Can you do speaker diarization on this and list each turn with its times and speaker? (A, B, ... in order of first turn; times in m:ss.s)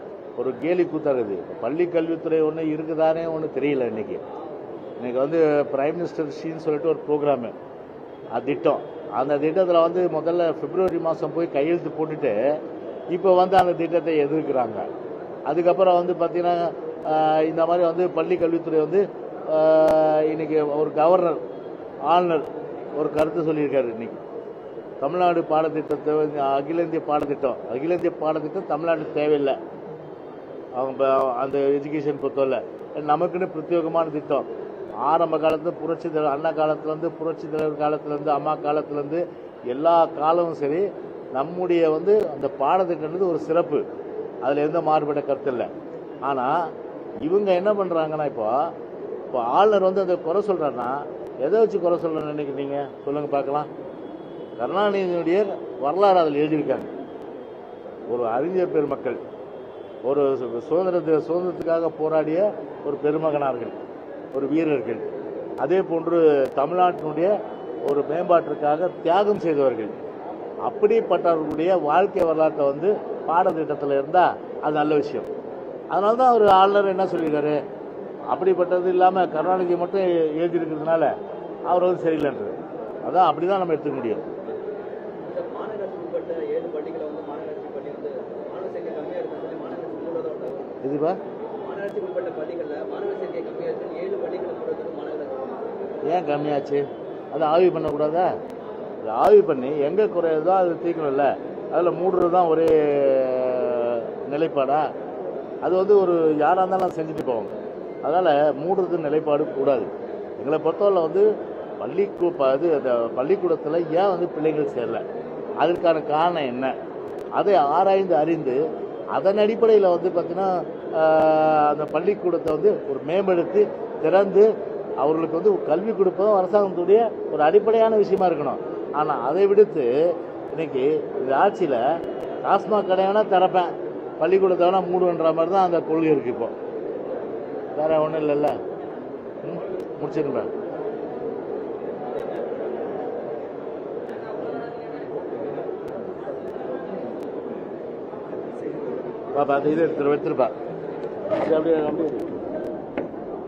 0:00.4-0:04.2 A
0:05.0-0:07.5 A
0:08.3-0:12.3 A
0:13.1-0:14.8 A
0:15.5-0:21.4 A
0:22.1-0:24.2 A
0:25.0-0:29.6 A
0:30.8-0:34.5 A
0:35.0-0:43.8 A
0:44.4-0:45.7 A
0:46.2-0:46.7 A
0:47.2-0:48.7 A
0:49.3-0:53.7 A
0:54.6-0:56.9 A
0:58.1-0:59.2 A
1:00.0-1:03.8 A
1:04.3-1:05.0 A
1:05.6-1:07.3 A
1:07.8-1:09.9 A
1:10.6-1:15.3 A
1:15.9-1:17.6 A
1:18.3-1:21.1 A
1:21.7-1:24.2 A
1:25.2-1:30.7 B
1:30.8-1:31.2 A
1:31.6-1:35.6 B
1:36.0-1:38.3 A
1:39.0-1:44.8 A
1:45.6-1:47.5 A
1:48.0-1:49.9 A
1:50.4-1:51.2 A
1:51.8-1:55.0 A
1:55.6-1:56.7 A
1:57.4-1:58.6 A
1:59.1-2:04.5 A
2:05.0-2:09.9 A
2:10.5-2:11.8 A
2:12.4-2:16.5 A
2:17.8-2:18.6 A
2:19.4-2:20.5 A
2:24.2-2:25.7 B
2:28.6-2:29.0 B
2:29.3-2:30.5 A
2:31.3-2:32.4 A